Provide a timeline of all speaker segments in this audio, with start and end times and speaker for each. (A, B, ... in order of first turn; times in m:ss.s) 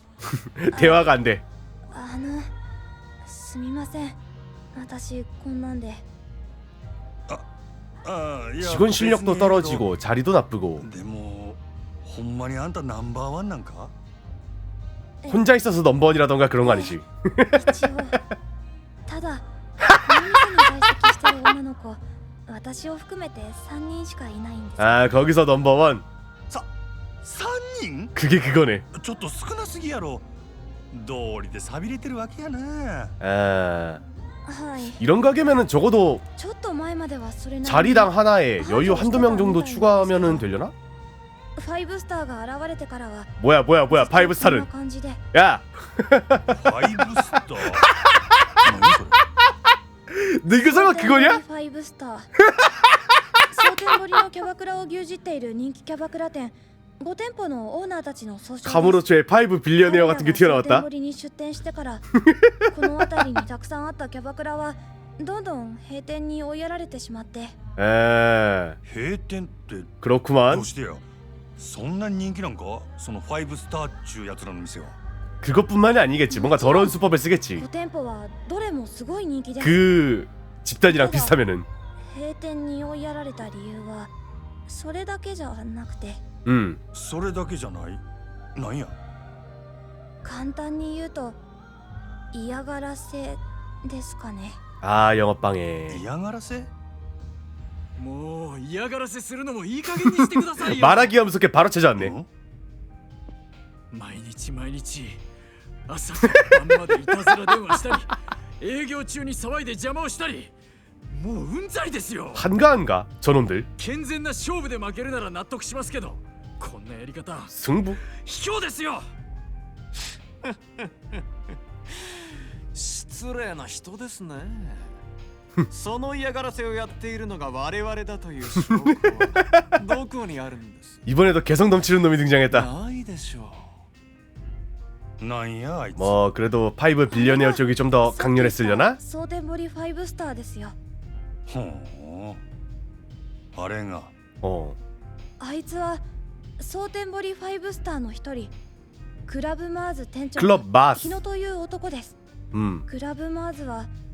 0:00.2-0:01.4 A
0:00.7-0:01.1 B
0:01.9-0:02.5 B
0:03.2-0:04.2 B
0:04.7-0:06.0 B
0:08.0-0:09.9 C
0:08.6-0:10.8 A
0:10.8-0:13.9 C
0:15.3-0:17.9 A
0:16.6-0:16.9 B
0:17.5-0:18.2 B
0:19.0-0:25.2 B
0:19.9-0:20.6 A
0:24.8-0:26.0 A
0:27.2-0:28.1 C
0:28.1-0:28.8 A
0:28.9-0:30.3 C
0:30.9-0:33.1 C
0:33.2-0:34.0 A
0:34.4-0:35.0 B
0:35.0-0:36.2 A
0:36.4-0:40.5 B
0:37.6-0:40.7 A
0:41.6-0:43.3 B
0:43.4-0:44.7 A
0:43.9-0:45.2 B
0:45.3-0:48.1 A
0:46.5-0:47.9 C
0:48.6-0:49.2 C
0:50.1-0:51.4 A
0:50.6-0:52.3 B
0:53.5-0:59.0 B
0:58.6-1:00.9 A
0:59.8-1:02.0 B
1:02.2-1:02.8 A
1:02.7-1:07.6 B
1:07.8-1:08.8 A
1:08.8-1:09.9 C
1:10.0-1:10.7 A
1:10.5-1:11.0 C
1:11.6-1:15.0 C
1:15.4-1:17.6 A
1:16.3-1:16.9 B
1:17.6-1:19.9 B
1:19.6-1:21.7 A
1:20.8-1:21.4 B
1:22.0-1:24.1 B
1:24.7-1:26.2 B
1:26.4-1:26.8 A
1:26.9-1:28.0 C
1:28.5-1:29.0 C
1:30.2-1:31.4 B
1:32.3-1:34.6 B
1:34.8-1:36.0 A
1:35.9-1:36.7 C
1:38.0-1:41.1 D
1:40.0-1:42.1 A
1:42.0-1:42.3 C
1:43.9-1:45.2 D
1:45.9-1:50.5 D
1:46.3-1:46.6 A
1:51.1-1:52.5 D
1:52.3-1:53.7 A
1:53.8-1:57.5 D
1:57.5-1:58.0 A
1:58.0-1:59.1 D
2:00.4-2:01.2 E
2:01.9-2:05.0 E
2:05.7-2:11.0 E
2:11.0-2:12.7 A
2:12.5-2:13.8 E
2:15.2-2:16.2 C
2:16.0-2:19.0 A
2:17.1-2:20.8 B
2:21.5-2:22.4 C
2:23.5-2:24.1 C
2:24.4-2:24.8 A
2:25.4-2:26.0 B
2:26.6-2:28.5 B
2:29.2-2:32.2 B
2:30.4-2:31.2 A
2:32.5-2:32.8 A
2:32.9-2:33.9 B